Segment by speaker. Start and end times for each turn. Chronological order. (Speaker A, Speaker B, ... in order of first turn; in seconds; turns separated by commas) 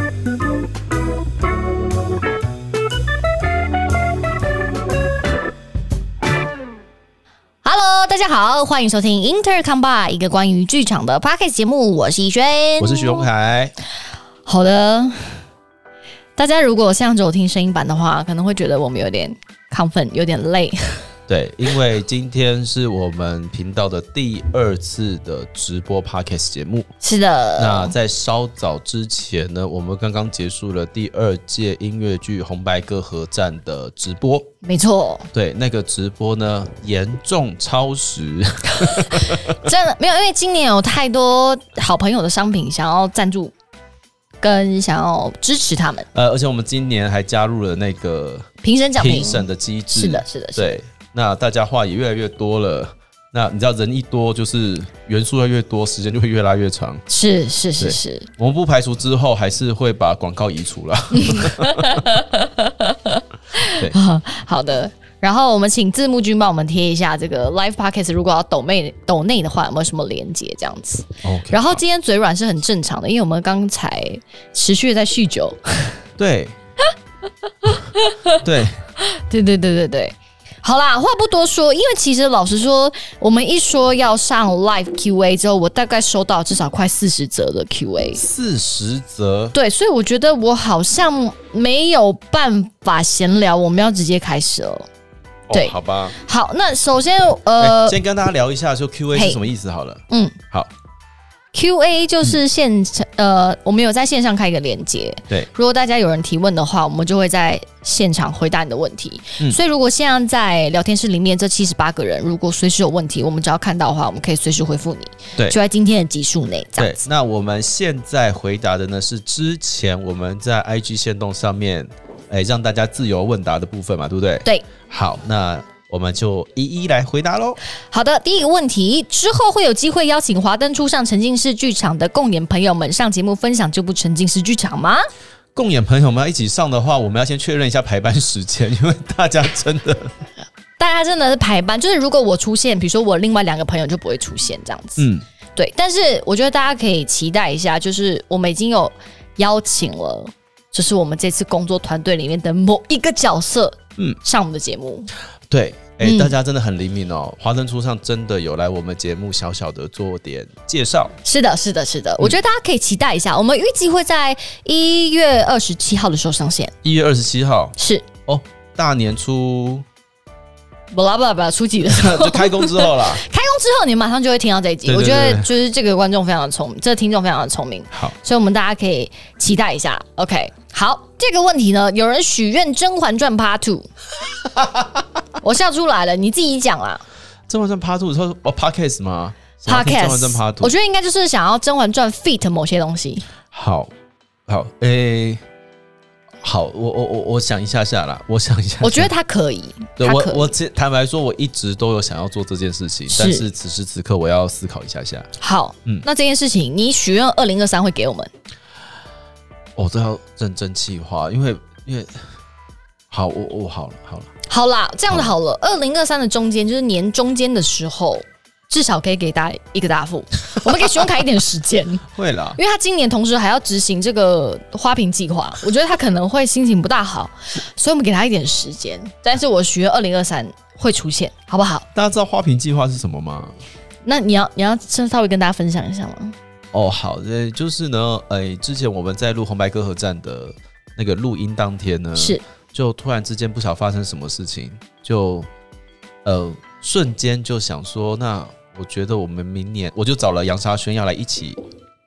Speaker A: 7.6-13.2, Speaker B: 12.8-13.7, Speaker A: 14.4-15.4, Speaker A: 16.4-21.0, Speaker B: 21.3-26.9, Speaker A: 27.0-27.9, Speaker B: 27.6-34.5, Speaker A: 34.6-35.3, Speaker B: 35.3-39.6, Speaker A: 39.3-43.5, Speaker A: 44.4-46.1, Speaker B: 46.1-57.0, Speaker A: 48.6-50.8, Speaker A: 57.1-58.3, Speaker B: 57.8-62.1, Speaker A: 61.1-76.0, Speaker B: 63.6-63.9, Speaker B: 71.2-71.8, Speaker B: 76.2-76.5, Speaker A: 77.6-78.4, Speaker B: 78.4-78.8, Speaker A: 79.0-88.2, Speaker B: 88.2-89.5, Speaker A: 89.5-94.9, Speaker B: 95.5-96.2, Speaker A: 95.5-98.0, Speaker B: 97.6-100.7, Speaker A: 99.1-99.4, Speaker A: 100.1-100.4, Speaker A: 101.5-117.0, Speaker B: 116.8-127.6, Speaker A: 127.9-135.0, Speaker B: 135.5-140.1, Speaker A: 140.8-155.1, Speaker B: 145.0-145.2, Speaker B: 155.5-161.2, Speaker A: 156.0-156.3, Speaker A: 161.2-166.7, Speaker B: 166.8-167.7, Speaker A: 167.8-168.1, Speaker B: 168.3-169.8, Speaker A: 170.9-183.9, Speaker B: 171.8-173.2, Speaker B: 174.8-175.5, Speaker A: 185.4-187.0, Speaker B: 187.5-190.8, Speaker A: 189.7-193.2, Speaker B: 193.5-193.9, Speaker B: 194.5-195.4, Speaker B: 196.4-199.1, Speaker A: 198.8-200.5, Speaker B: 200.0-205.3, Speaker A: 203.1-203.4, Speaker A: 205.4-208.3, Speaker B: 209.8-212.2, Speaker B: 213.1-214.3, Speaker A: 214.5-231.9, Speaker B: 222.1-222.6, Speaker B: 231.9-233.6, Speaker A: 234.0-236.3, Speaker B: 236.7-245.5, Speaker A: 242.2-242.4, Speaker B: 246.2-251.6